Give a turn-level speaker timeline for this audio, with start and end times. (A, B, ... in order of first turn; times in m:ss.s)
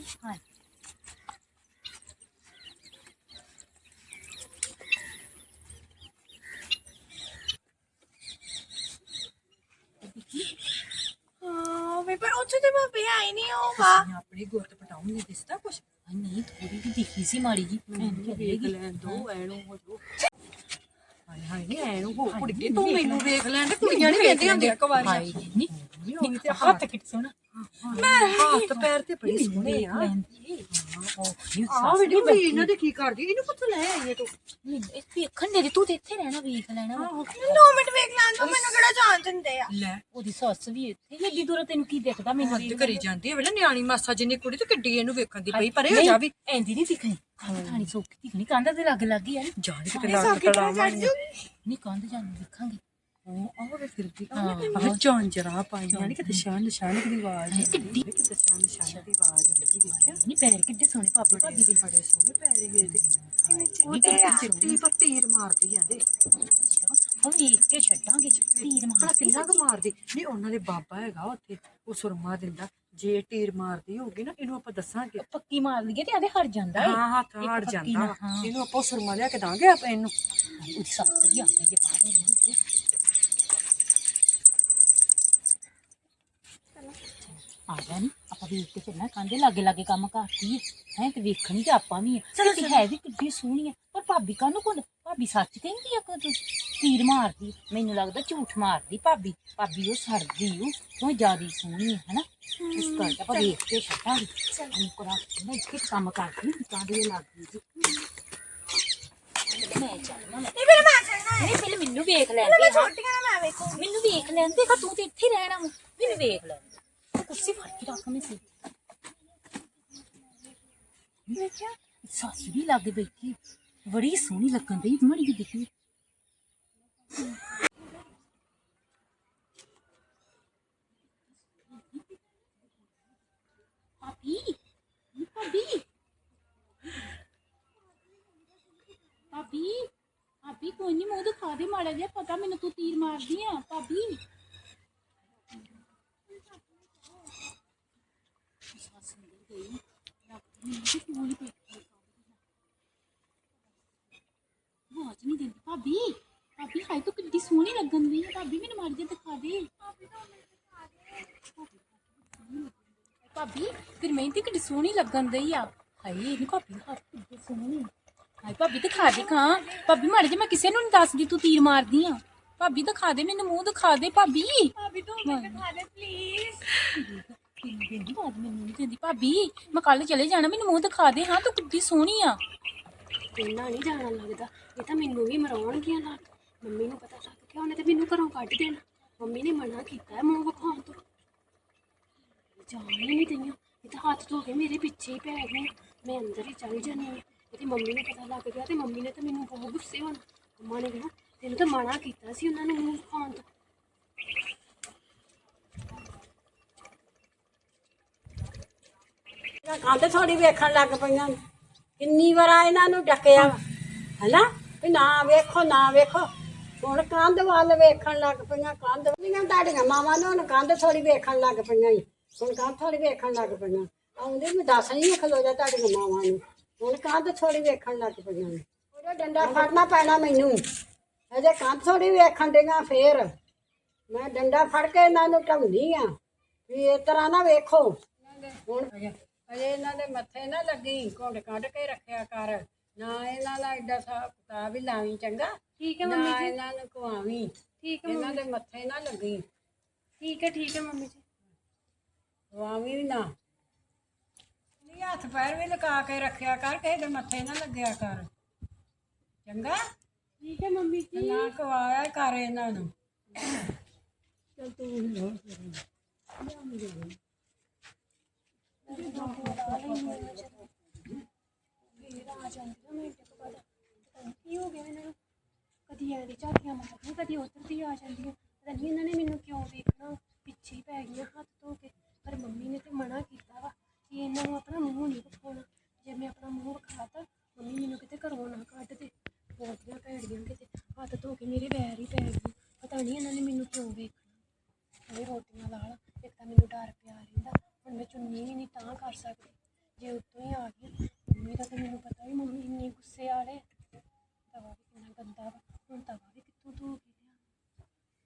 0:10.0-0:10.5 A
0:11.4-0:14.1 B
0:13.8-0:15.8 C
0:16.1-0:19.2 A
0:17.9-0:20.0 C
0:21.3-0:26.8 C
0:22.3-0:25.7 A
0:26.2-0:27.3 A
0:27.5-0:30.1 C
0:27.9-0:32.7 A
0:28.0-0:28.6 B
0:30.7-0:31.1 C
0:31.7-0:34.3 C
0:34.6-0:37.8 A
0:36.9-0:37.5 C
0:37.4-0:39.7 B
0:38.4-0:38.9 A
0:39.7-0:40.0 C
0:40.1-0:43.0 A
0:42.4-0:46.3 C
0:45.5-0:50.6 A
0:47.4-0:47.9 C
0:49.6-0:51.1 C
0:50.1-0:51.4 B
0:51.6-0:52.8 A
0:53.2-1:00.2 C
0:54.3-0:55.0 A
0:54.4-0:54.9 B
0:55.9-0:56.5 A
0:57.5-0:58.0 A
0:59.8-1:01.9 A
1:01.3-1:03.1 C
1:02.8-1:04.8 A
1:03.5-1:04.5 B
1:03.8-1:06.0 C
1:06.6-1:09.6 A
1:08.6-1:15.2 C
1:15.2-1:18.5 A
1:16.7-1:20.1 C
1:20.6-1:22.6 A
1:27.7-1:47.9 A
1:32.4-1:32.8 C
1:42.6-1:43.6 B
1:49.5-1:52.9 A
1:50.5-1:51.6 B
1:52.4-1:53.8 B
1:53.7-1:58.4 A
2:01.3-2:01.8 B
2:02.0-2:05.7 A
2:11.6-2:12.2 A
2:14.0-2:14.6 A
2:15.1-2:15.8 A
2:19.3-2:19.9 A
2:20.4-2:24.2 A
2:28.7-2:32.4 A
2:34.9-2:39.7 A
2:41.4-2:42.7 A
2:43.3-2:47.9 A
2:48.4-2:54.7 A
2:48.9-2:49.9 B
2:54.8-2:56.6 B
2:55.2-2:55.6 A
2:56.8-3:02.4 A
3:03.3-3:11.0 D
3:12.6-3:23.4 D
3:29.6-3:31.4 E
3:32.0-3:33.6 E
3:34.2-3:36.3 E
3:36.8-3:50.6 E
3:51.3-3:53.3 E
3:54.1-3:56.1 E
3:56.7-4:07.5 E
4:05.8-4:06.6 D
4:07.8-4:08.4 D
4:08.0-4:09.4 E
4:10.2-4:11.2 D
4:12.5-4:13.3 E
4:14.8-4:18.3 E
4:19.4-4:19.8 E
4:20.4-4:21.5 D
4:21.1-4:23.6 E
4:24.6-4:25.8 E
4:26.4-4:27.2 E
4:28.8-4:30.6 D
4:28.9-4:30.5 E
4:31.9-4:35.2 D
4:35.9-4:54.4 D
4:55.1-5:03.6 D
5:04.5-5:07.4 D